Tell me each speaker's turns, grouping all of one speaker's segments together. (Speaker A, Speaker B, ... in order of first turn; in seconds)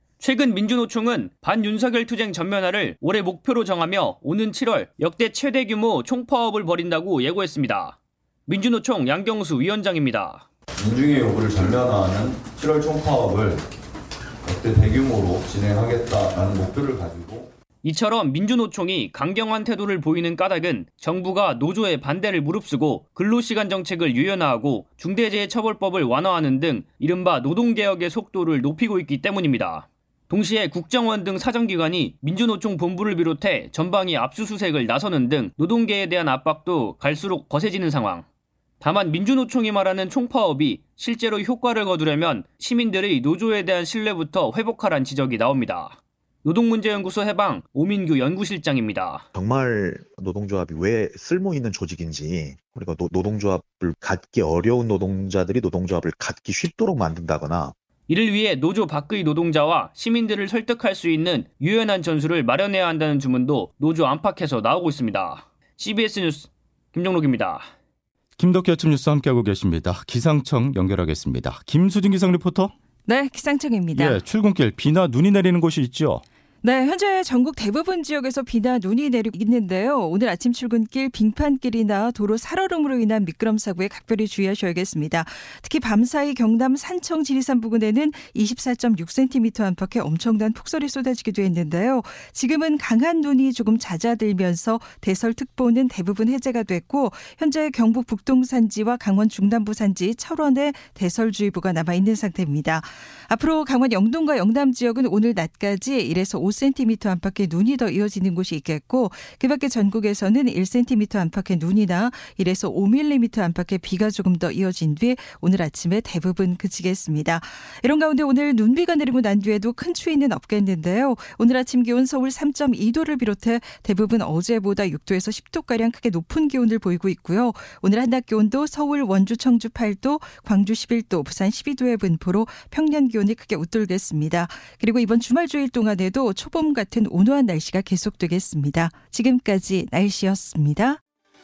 Speaker A: 0.2-8.0, 8.5-10.4, 17.8-38.2, 38.8-49.2, 58.1-67.7
Speaker B: 10.9-13.6, 14.5-17.4
Speaker C: 49.3-57.7
Speaker D: 68.4-72.7, 74.0-76.2
Speaker E: 73.0-74.2, 76.6-141.0